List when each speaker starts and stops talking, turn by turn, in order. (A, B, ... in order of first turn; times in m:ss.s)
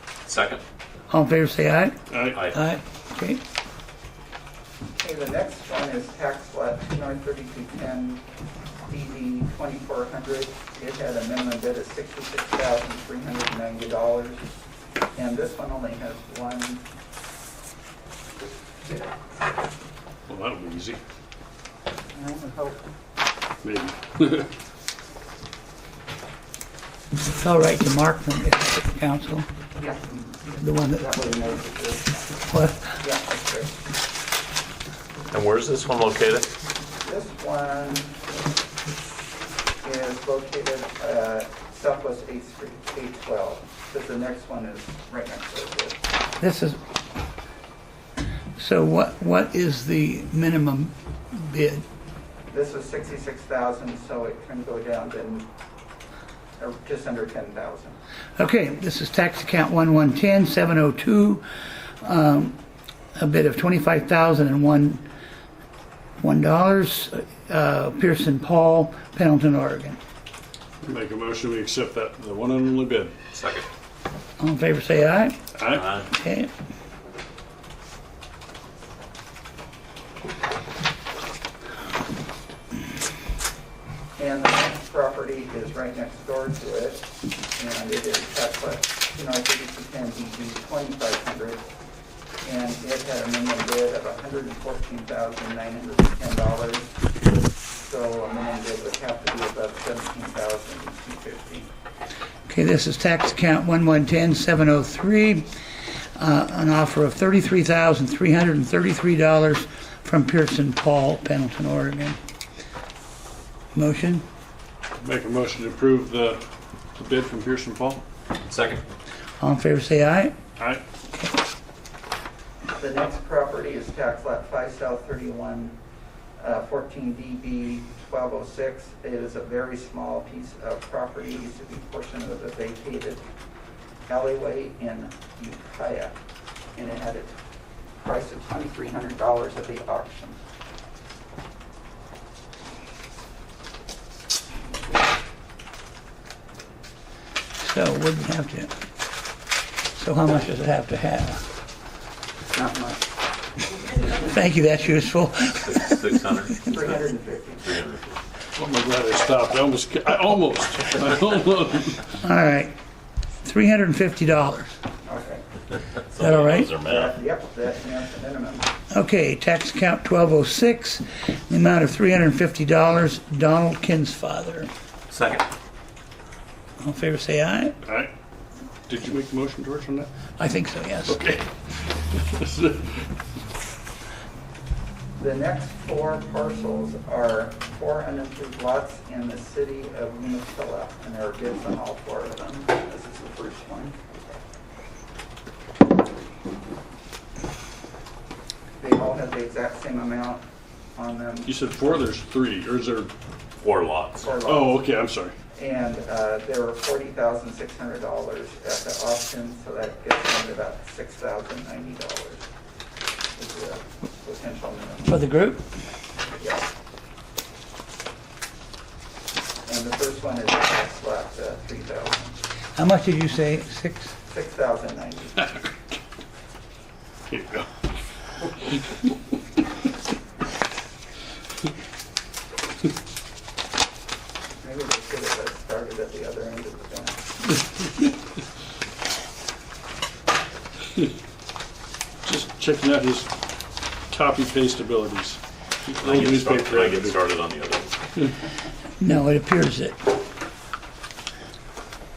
0:00.3-0:00.6 A
0:01.1-0:03.4 B
0:02.1-0:02.4 C
0:02.3-0:02.6 A
0:05.0-0:08.2 D
0:08.9-0:14.4 D
0:15.1-0:16.8 D
0:20.3-0:21.0 C
0:22.1-0:22.8 D
0:23.6-0:24.5 C
0:27.3-0:29.5 B
0:29.8-0:32.3 D
0:30.6-0:31.1 B
0:32.5-0:33.0 B
0:32.9-0:33.8 D
0:35.3-0:36.5 A
0:37.0-0:38.2 D
0:39.8-0:46.0 D
0:46.4-0:46.8 B
0:48.6-0:51.8 B
0:52.5-0:55.5 D
0:56.6-0:58.0 D
0:58.4-1:01.4 B
1:02.0-1:02.6 B
1:03.2-1:05.0 B
1:06.2-1:10.0 B
1:10.8-1:13.1 C
1:13.3-1:13.7 A
1:14.4-1:15.4 B
1:15.6-1:15.9 C
1:15.7-1:16.1 A
1:16.1-1:16.5 B
1:24.2-1:31.7 D
1:32.4-1:37.0 D
1:37.8-1:41.7 D
1:42.5-1:45.5 B
1:46.2-1:52.2 B
1:53.8-1:54.2 B
1:55.0-1:56.4 C
1:57.0-1:58.0 C
1:58.4-1:58.8 A
1:59.4-2:00.4 B
2:02.8-2:05.8 D
2:06.4-2:13.2 D
2:14.1-2:16.2 D
2:16.8-2:17.4 D
2:18.0-2:20.4 D
2:27.6-2:28.7 B
2:30.0-2:31.4 B
2:32.5-2:33.0 D
2:34.1-2:36.2 B
2:35.6-2:36.7 A
2:36.6-2:37.8 D
2:37.6-2:38.2 A
2:38.6-2:42.0 C
2:42.2-2:42.7 B
2:43.4-2:44.7 B
2:45.0-2:45.4 D
2:46.0-2:47.1 A
2:46.2-2:46.7 B
2:46.8-2:48.7 D
2:48.9-2:54.7 B
2:55.1-2:55.5 A
2:56.8-2:57.8 B
2:57.8-2:58.1 C
2:58.9-3:00.1 C
3:00.4-3:01.2 B
3:01.1-3:01.5 C
3:02.0-3:03.0 C
3:05.2-3:14.0 D
3:18.8-3:20.4 D
3:21.0-3:21.5 D
3:21.5-3:23.1 C
3:23.6-3:24.3 A
3:24.2-3:24.8 D
3:24.4-3:25.3 C
3:25.6-3:32.4 D
3:33.4-3:35.2 D
3:35.1-3:35.6 B
3:36.4-3:36.6 D
3:39.6-3:42.4 D
3:42.8-3:44.1 B
3:44.3-3:45.5 D
3:47.3-3:47.7 C
3:54.6-3:57.2 D
4:02.2-4:03.3 C
4:04.1-4:07.2 C
4:06.0-4:08.0 A
4:09.0-4:10.0 B